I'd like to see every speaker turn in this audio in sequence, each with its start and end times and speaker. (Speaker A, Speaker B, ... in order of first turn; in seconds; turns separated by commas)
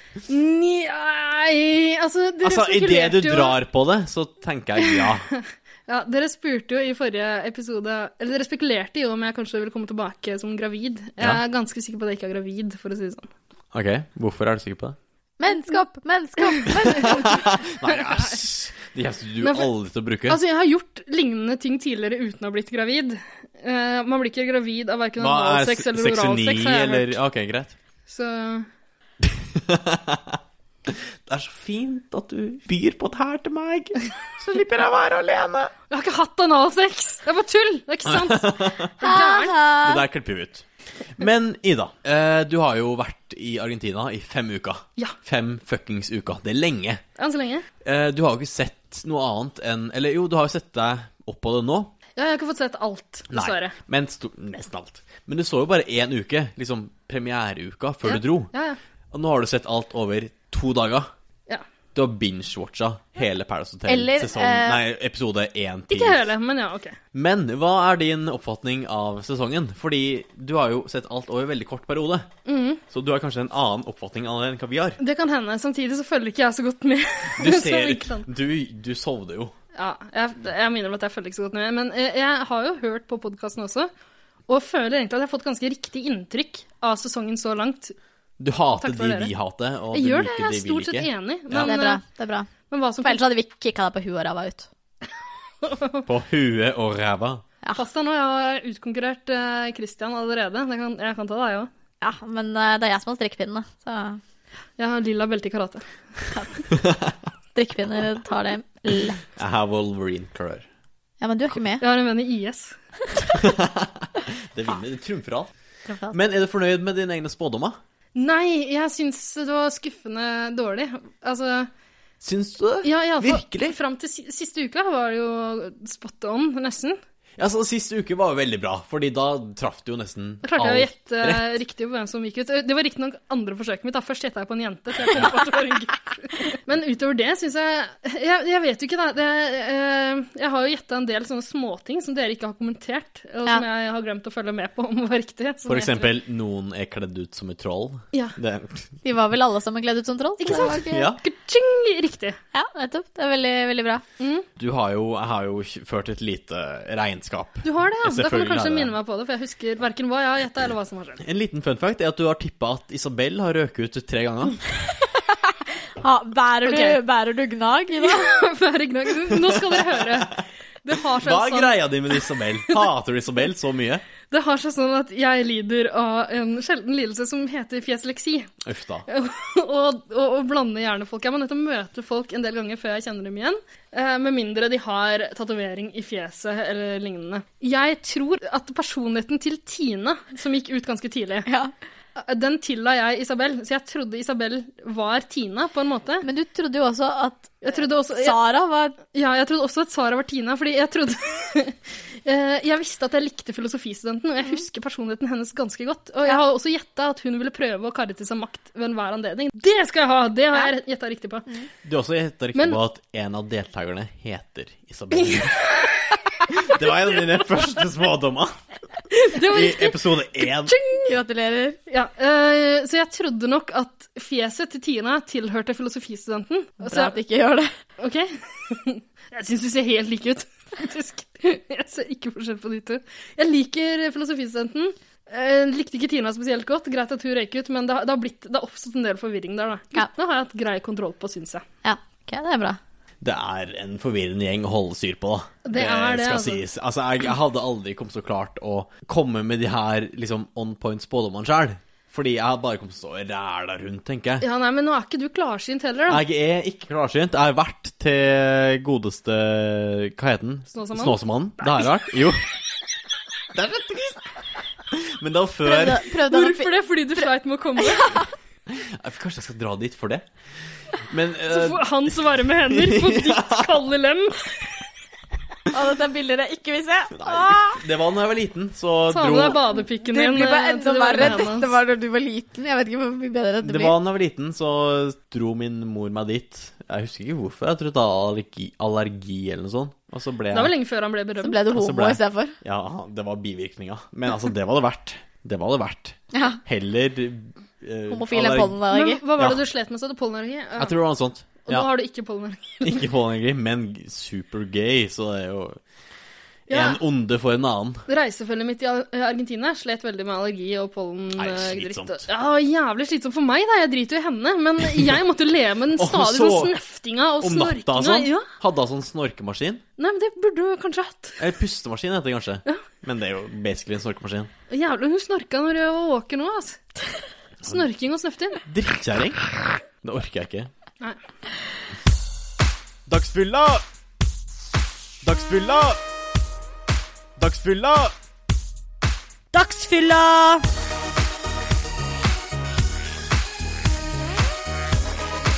Speaker A: 0.3-3.6, Speaker B: 2.4-5.2, Speaker A: 4.8-5.3, Speaker A: 5.9-13.3, Speaker B: 13.7-15.0, Speaker C: 15.4-17.3, Speaker A: 16.6-18.4, Speaker B: 16.9-20.4, Speaker A: 19.4-19.7, Speaker A: 20.3-27.1, Speaker B: 25.2-27.8, Speaker A: 28.1-28.7, Speaker B: 29.2-35.7, Speaker A: 35.9-39.5, Speaker B: 38.1-38.9, Speaker C: 39.0-40.0, Speaker B: 39.8-47.0, Speaker A: 47.2-47.7, Speaker B: 47.8-51.9, Speaker A: 52.2-53.8, Speaker B: 53.3-58.5, Speaker A: 58.0-58.8, Speaker B: 59.1-61.1, Speaker B: 62.0-66.3, Speaker C: 63.9-64.8, Speaker A: 65.9-67.0, Speaker B: 67.1-72.3, Speaker A: 72.5-72.8, Speaker B: 72.9-75.0, Speaker A: 75.0-78.3, Speaker B: 77.4-79.5, Speaker A: 79.8-83.9, Speaker A: 84.5-88.0, Speaker B: 88.4-91.8, Speaker A: 88.8-89.3, Speaker A: 89.9-92.0, Speaker C: 91.5-92.5, Speaker A: 92.7-93.2, Speaker C: 93.0-94.7, Speaker A: 95.6-96.0, Speaker B: 96.1-97.4, Speaker A: 97.8-101.7, Speaker C: 102.0-104.2, Speaker A: 104.8-105.9, Speaker B: 106.8-107.1, Speaker C: 107.5-109.2, Speaker B: 109.4-110.7, Speaker C: 111.2-111.8, Speaker A: 111.8-112.8, Speaker B: 113.3-115.5, Speaker C: 115.9-116.2, Speaker B: 116.1-117.8, Speaker A: 118.2-121.7, Speaker B: 122.2-123.8, Speaker A: 122.8-127.0, Speaker B: 127.4-131.6, Speaker A: 130.4-146.1, Speaker B: 145.7-148.9, Speaker C: 149.0-151.1, Speaker A: 150.4-152.4, Speaker B: 150.5-151.2, Speaker C: 152.5-154.0, Speaker A: 154.2-154.5, Speaker B: 154.6-158.9, Speaker A: 157.6-161.2, Speaker B: 161.2-164.6, Speaker C: 166.0-168.3, Speaker A: 166.7-167.0, Speaker A: 168.0-171.8, Speaker B: 169.4-170.3, Speaker B: 171.2-174.0, Speaker A: 174.3-178.5, Speaker B: 178.7-179.1, Speaker A: 179.1-191.5, Speaker C: 191.5-191.7, Speaker A: 192.2-196.3, Speaker C: 196.2-199.0, Speaker A: 197.6-198.4, Speaker A: 199.1-211.5, Speaker B: 211.8-215.6, Speaker A: 215.2-216.0, Speaker B: 216.6-218.6, Speaker A: 219.1-221.1, Speaker B: 219.4-220.7, Speaker C: 221.1-221.8, Speaker A: 221.9-227.1, Speaker C: 226.8-227.7, Speaker A: 228.0-241.6, Speaker C: 241.8-242.8, Speaker B: 243.2-254.5, Speaker A: 245.7-246.6, Speaker A: 254.4-256.2, Speaker B: 256.1-262.4, Speaker A: 260.7-261.7, Speaker B: 263.5-264.2, Speaker B: 264.9-266.0, Speaker C: 265.6-267.2, Speaker A: 266.3-268.2, Speaker C: 267.8-268.2, Speaker B: 268.7-270.3, Speaker B: 271.1-273.7, Speaker A: 271.5-274.6, Speaker C: 275.7-277.8, Speaker B: 277.1-279.6, Speaker A: 279.1-281.7, Speaker C: 280.0-283.9, Speaker B: 283.6-290.7, Speaker A: 290.5-291.6, Speaker C: 291.4-292.5, Speaker B: 291.7-298.8, Speaker C: 296.3-296.6, Speaker C: 298.1-299.2, Speaker A: 298.9-300.9, Speaker B: 300.8-301.9, Speaker A: 301.6-303.0, Speaker B: 302.8-305.8, Speaker A: 306.7-307.0, Speaker B: 306.7-308.0, Speaker A: 308.1-318.5, Speaker B: 311.4-312.3, Speaker B: 316.0-316.8, Speaker B: 317.4-319.8, Speaker A: 320.0-321.4, Speaker B: 321.4-324.5, Speaker A: 324.7-326.8, Speaker A: 327.7-328.6, Speaker B: 328.7-329.4, Speaker B: 330.0-330.7, Speaker B: 333.1-333.8, Speaker B: 335.2-336.0, Speaker B: 337.4-338.1, Speaker C: 339.7-340.2